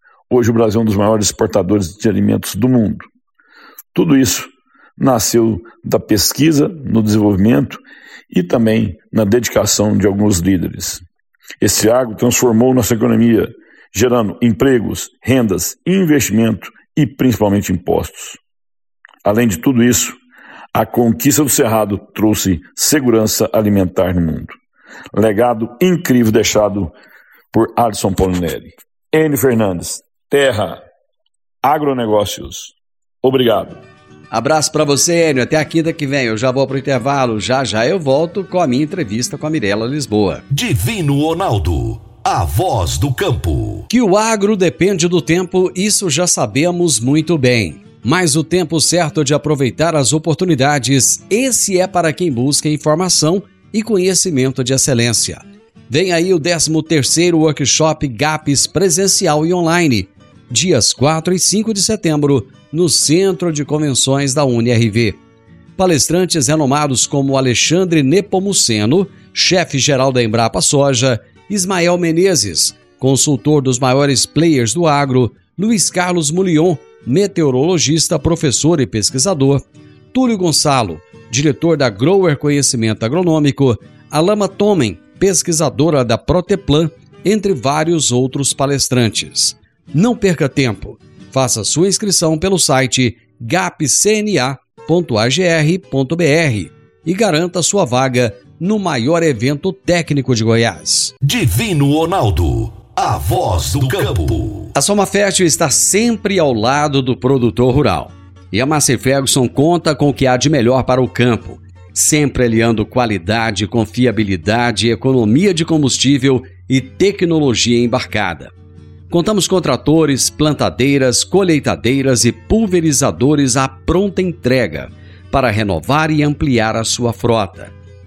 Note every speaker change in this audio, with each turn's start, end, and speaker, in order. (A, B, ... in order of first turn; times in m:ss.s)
0:00.3-0:03.1 A
0:04.0-0:11.0 A
0:11.6-0:18.4 A
0:19.2-0:20.2 A
0:20.7-0:24.6 A
0:25.1-0:26.9 A
0:27.5-0:30.8 A
0:31.6-0:33.8 A
0:34.3-0:40.4 B
0:40.5-0:43.9 C
0:43.9-1:05.2 B
1:05.8-1:19.6 B
1:20.1-1:41.1 B
1:41.2-1:44.7 C
1:44.8-1:58.5 B
1:59.1-2:07.7 B